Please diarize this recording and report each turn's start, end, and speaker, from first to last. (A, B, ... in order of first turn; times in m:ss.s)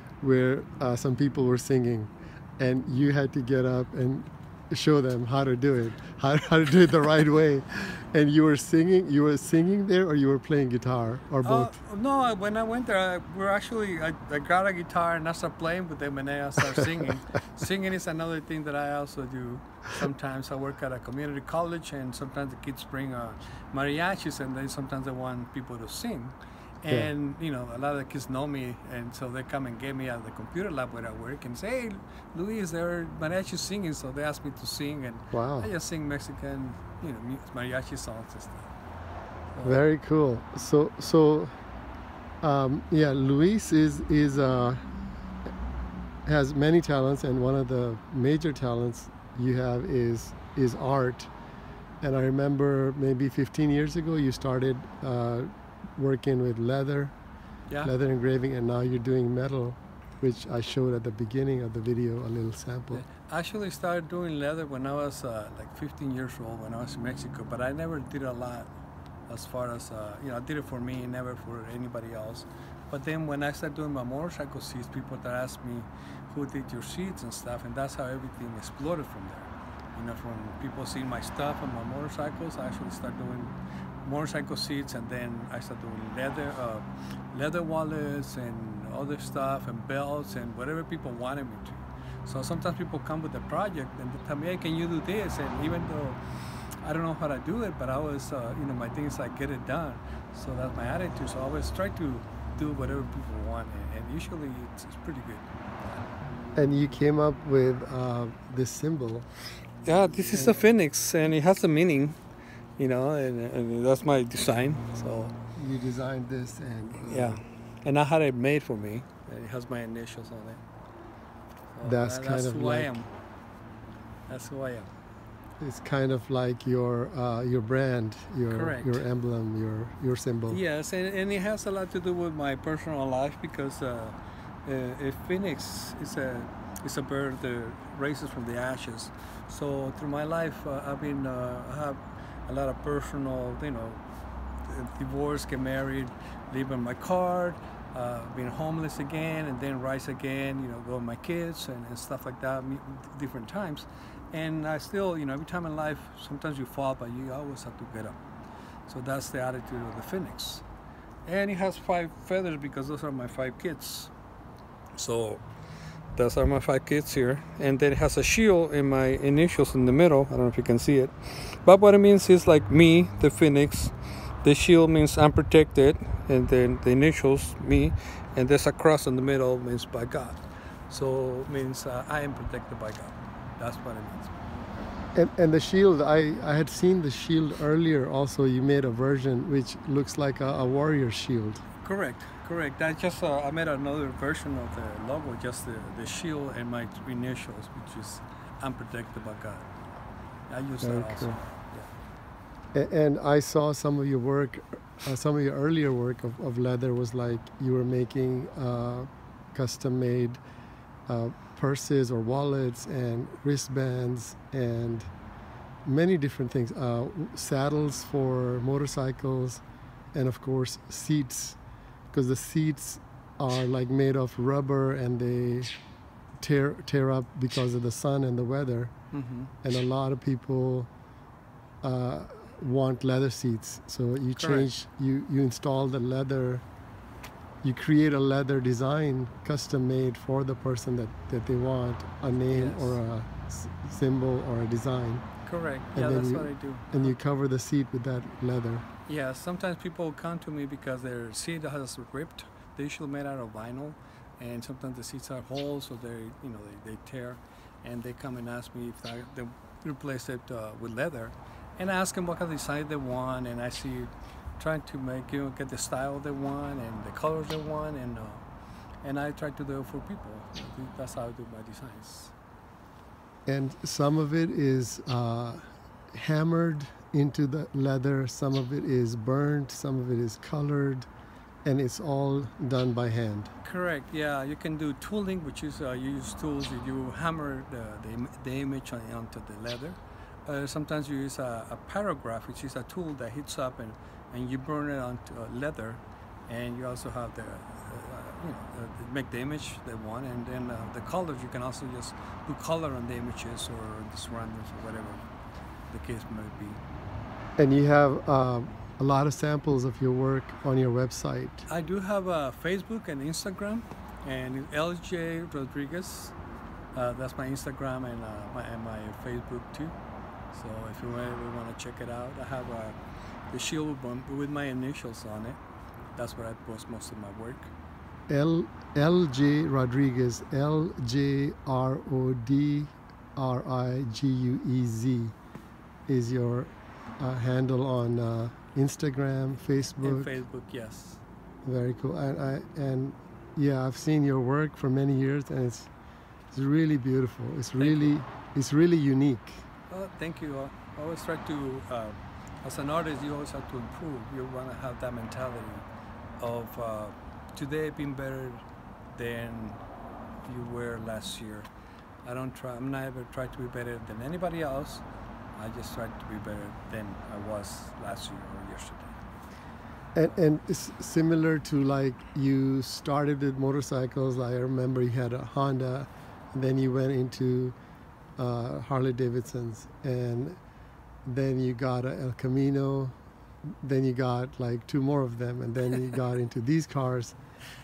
0:00.2-0:11.7 A
0:11.4-0:38.7 B
0:35.3-0:35.7 A
0:39.6-0:41.5 A
0:42.4-0:44.8 A
0:46.3-0:51.3 A
0:52.0-0:57.2 A
0:57.8-1:03.0 A
1:02.9-1:08.7 B
1:09.3-1:23.5 B
1:24.0-1:36.2 B
1:36.8-1:45.5 B
1:46.6-1:49.3 A
1:49.9-1:52.2 B
1:52.8-1:55.4 B
1:55.6-1:57.4 A
1:57.0-2:00.6 B
2:01.7-2:03.1 B
2:01.8-2:03.0 A
2:04.3-2:04.9 B
2:05.6-2:10.6 A
2:08.5-2:09.0 B
2:10.5-2:24.0 B
2:24.7-2:38.2 B
2:38.9-2:40.6 B
2:41.3-2:44.1 B
2:45.0-2:45.4 B
2:46.2-2:53.9 B
2:54.4-3:04.4 B
3:05.1-3:11.6 A
3:11.8-3:19.7 B
3:20.5-3:21.9 B
3:20.8-3:21.4 A
3:22.7-3:30.4 A
3:31.1-3:35.1 A
3:35.8-3:39.6 A
3:40.1-3:41.6 A
3:42.1-3:45.7 A
3:46.4-3:48.9 A
3:49.1-3:49.5 B
3:49.6-3:50.9 A
3:51.8-3:56.6 A
3:54.4-3:54.7 B
3:57.6-4:05.2 A
4:02.5-4:03.0 B
4:05.5-4:07.2 B
4:06.0-4:08.9 A
4:09.1-4:28.4 B
4:29.0-4:32.3 B
4:33.5-4:41.1 A
4:41.6-4:43.5 A
4:43.6-5:05.3 B
5:05.9-5:06.8 B
5:07.6-5:11.7 A
5:11.7-5:16.4 B
5:17.0-5:20.0 B
5:20.5-5:23.0 B
5:23.5-5:25.6 B
5:26.2-5:27.7 B
5:28.3-5:35.4 A
5:36.1-5:40.4 A
5:40.0-5:41.2 B
5:41.6-5:45.9 A
5:46.5-5:49.7 A
5:47.8-5:48.1 B
5:49.9-5:55.8 B
5:56.4-5:59.8 B
6:00.5-6:01.7 B
6:02.2-6:05.0 B
6:05.6-6:09.2 B
6:10.2-6:17.8 A
6:18.4-6:20.6 A
6:21.2-6:23.2 A
6:23.8-6:27.4 A